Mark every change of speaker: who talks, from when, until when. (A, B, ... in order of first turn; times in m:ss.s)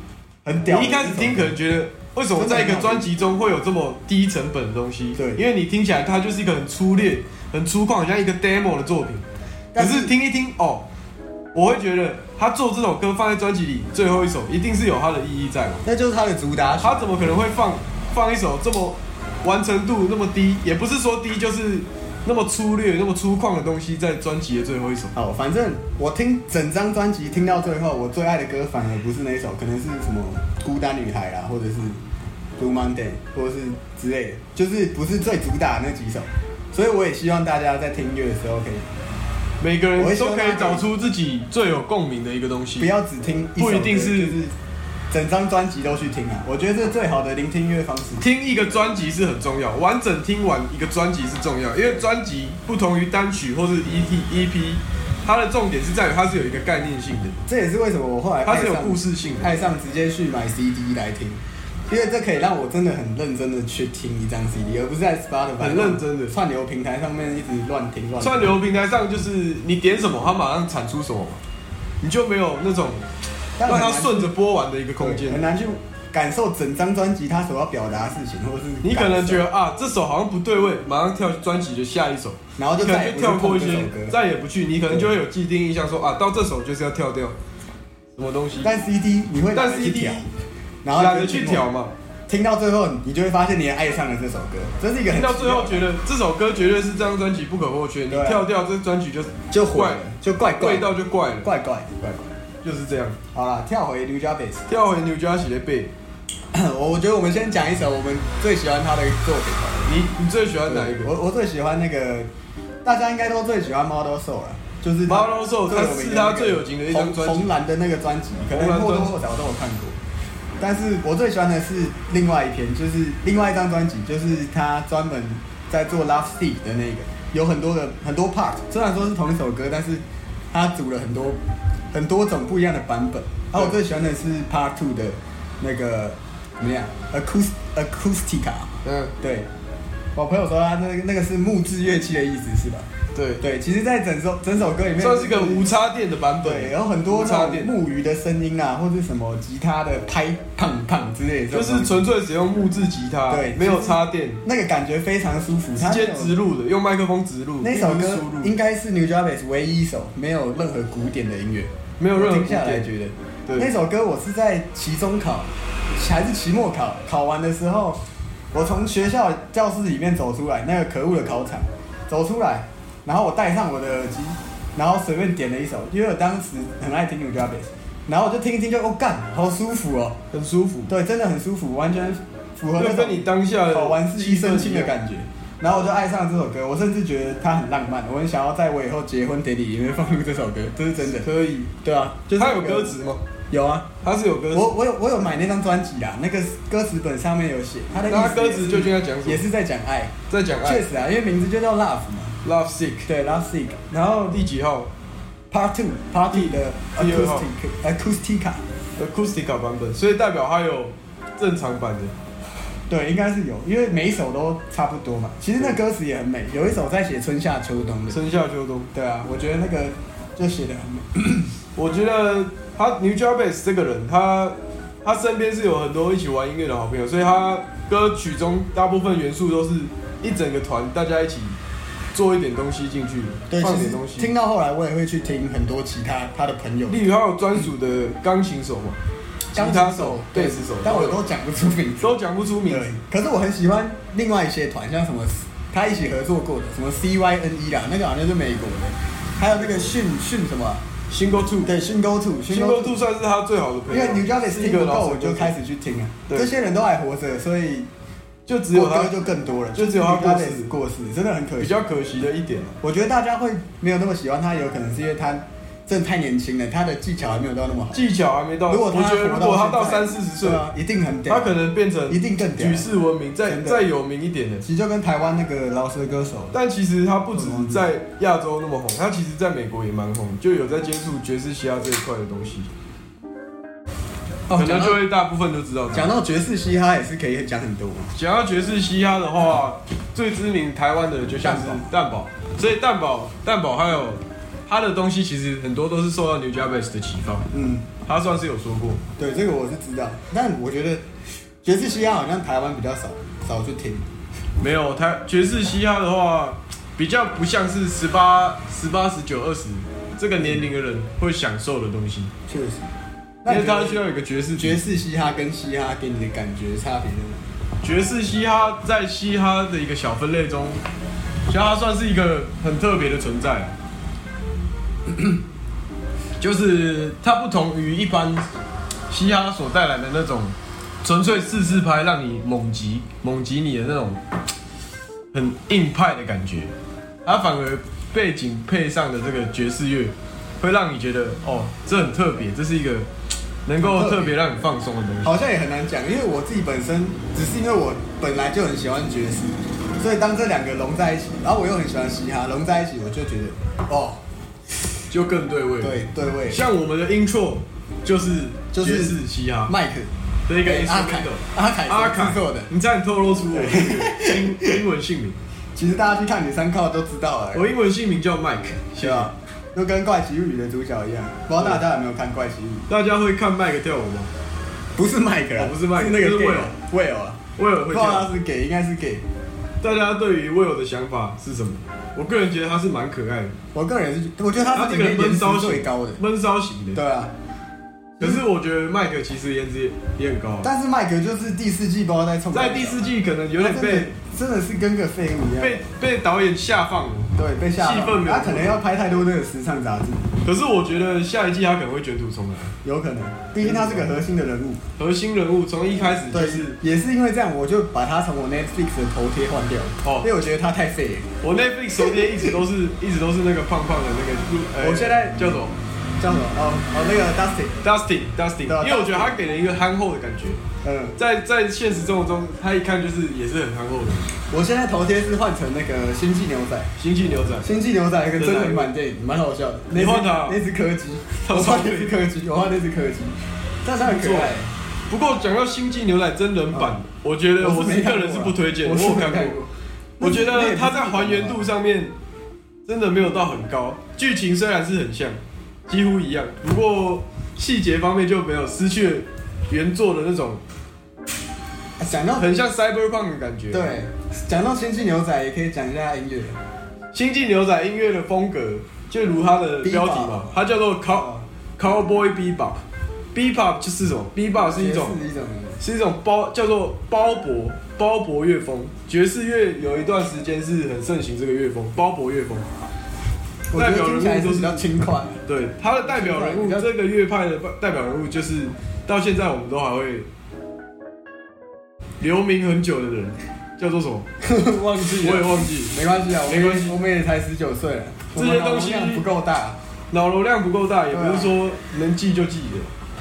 0:00.4-0:01.6 A
0:00.7-0:09.2 B
0:02.3-0:03.1 A
0:05.2-0:05.4 A
0:09.7-0:10.1 A
0:09.8-0:10.8 B
0:11.5-0:15.8 B
0:15.8-0:17.1 A
0:16.8-0:25.1 B
0:25.1-0:32.0 A
0:32.6-0:38.9 A
0:39.6-0:42.9 B
0:40.0-0:40.9 A
0:42.8-0:44.5 A
0:43.6-0:44.4 B
0:45.1-0:48.2 A
0:48.2-0:57.4 B
0:57.5-1:08.6 A
0:58.4-0:59.6 B
1:05.6-1:06.3 B
1:08.2-1:11.4 B
1:12.0-1:13.0 B
1:13.6-1:14.3 A
1:13.6-1:15.4 B
1:15.0-1:19.4 A
1:18.8-1:27.3 B
1:22.6-1:24.2 A
1:24.9-1:25.1 A
1:28.2-1:28.7 B
1:28.6-1:30.2 A
1:29.5-1:30.3 B
1:30.8-1:31.7 A
1:30.9-1:31.9 B
1:32.3-1:35.8 A
1:35.1-1:40.0 B
1:38.1-1:38.5 A
1:39.5-1:42.3 A
1:40.6-1:41.5 B
1:42.6-1:43.2 B
1:43.3-1:44.7 A
1:44.7-1:45.9 B
1:46.5-1:49.9 A
1:49.8-1:51.1 B
1:50.6-1:52.3 A
1:52.8-2:00.0 A
1:55.1-1:57.5 B
1:58.5-1:59.2 B
2:00.6-2:11.4 A
2:11.9-2:19.5 A
2:18.8-2:19.1 B
2:20.1-2:22.9 A
2:23.1-2:23.4 B
2:23.4-2:25.7 A
2:25.0-2:27.7 B
2:26.4-2:32.0 A
2:31.5-2:34.4 B
2:33.3-2:36.4 A
2:35.8-2:38.5 B
2:37.6-2:48.0 A
2:42.0-2:42.9 B
2:48.5-3:00.2 A
3:00.3-3:00.9 B
3:00.9-3:13.0 A
3:02.8-3:05.0 B
3:11.2-3:11.7 B
3:12.4-3:13.2 B
3:13.5-3:13.9 A
3:14.0-3:14.7 B
3:14.5-3:22.4 A
3:18.1-3:19.4 B
3:20.3-3:20.8 B
3:22.4-3:23.1 B
3:23.1-3:24.4 A
3:24.3-3:24.9 B
3:25.5-3:28.6 A
3:26.3-3:27.5 B
3:29.0-3:32.1 B
3:32.9-3:38.2 A
3:38.1-3:38.9 B
3:38.9-3:41.5 A
3:41.8-3:51.6 B
3:52.1-3:54.3 B
3:53.5-3:57.0 A
3:56.9-3:59.0 B
3:59.5-4:01.2 B
3:59.5-4:10.8 A
4:02.0-4:02.9 B
4:09.6-4:09.9 B
4:11.1-4:11.7 B
4:11.6-4:13.0 A
4:12.5-4:15.5 B
4:13.9-4:17.9 A
4:18.5-4:20.7 B
4:18.7-4:21.8 A
4:21.6-4:22.8 B
4:22.8-4:28.0 A
4:27.9-4:30.6 B
4:28.7-4:31.6 A
4:31.3-4:34.6 B
4:32.1-4:32.9 A
4:33.4-4:33.8 A
4:34.6-4:36.6 A
4:36.5-4:42.7 B
4:37.3-4:37.9 A
4:44.5-4:45.0 A
4:44.5-4:46.1 B
4:45.9-4:48.1 A
4:48.1-4:57.5 B
4:51.4-4:51.9 A
4:57.5-4:57.9 A
4:58.0-4:59.0 B
4:59.2-5:01.0 A
5:01.6-5:04.1 A
5:04.6-5:12.3 B
5:12.5-5:12.9 A
5:13.4-5:17.4 A
5:13.5-5:14.8 B
5:17.8-5:20.8 B
5:21.5-5:23.8 B
5:26.4-5:28.4 B
5:29.1-5:34.2 B
5:35.3-5:36.7 B
5:37.2-5:43.1 B
5:43.6-5:45.3 B
5:43.8-5:44.4 A
5:45.2-5:54.2 A
5:55.1-5:59.7 B
5:55.8-5:56.6 A
5:58.7-6:00.1 A
6:00.5-6:05.4 B
6:00.6-6:02.7 A
6:03.5-6:04.8 A
6:05.8-6:07.7 A
6:07.5-6:09.3 B
6:09.0-6:12.9 A
6:12.9-6:14.3 B
6:15.0-6:17.4 A
6:15.6-6:16.7 B
6:17.6-6:18.3 B
6:17.9-6:19.2 A
6:19.8-6:23.5 B
6:23.7-6:26.2 A
6:24.7-6:27.0 B
6:26.9-6:27.3 A
6:28.2-6:30.7 B
6:30.6-6:35.8 A
6:32.5-6:34.1 B
6:35.6-6:38.8 B
6:37.4-6:40.3 A
6:40.4-6:42.7 B
6:42.8-6:44.9 A
6:43.6-6:44.1 B
6:45.0-6:46.8 B
6:46.3-6:51.3 A
6:50.0-6:50.3 B
6:51.4-6:55.7 B
6:52.0-6:52.5 A
6:54.8-6:57.8 A
6:57.8-7:00.6 B
6:58.7-6:59.4 A
7:00.8-7:01.2 A
7:01.2-7:04.4 B
7:04.5-7:06.9 A
7:07.0-7:07.7 B
7:07.6-7:14.7 A
7:08.4-7:08.9 B
7:09.9-7:10.6 B
7:11.4-7:12.2 B
7:14.0-7:19.6 B
7:17.6-7:21.6 A
7:20.2-7:22.1 B
7:22.8-7:30.6 B
7:32.0-7:32.5 A
7:32.4-7:34.0 B
7:33.7-7:36.6 A
7:37.1-7:42.8 B
7:39.8-7:40.6 A
7:41.1-7:41.4 A
7:43.3-7:45.2 B
7:44.7-7:45.8 A
7:45.8-7:52.6 B
7:53.7-7:55.4 A
7:53.7-7:54.8 B
7:55.4-8:00.3 B
7:56.0-7:56.9 A
8:02.2-8:04.3 B
8:04.4-8:09.8 A
8:05.2-8:07.0 B
8:08.3-8:09.2 B
8:10.1-8:12.9 B
8:11.1-8:11.5 A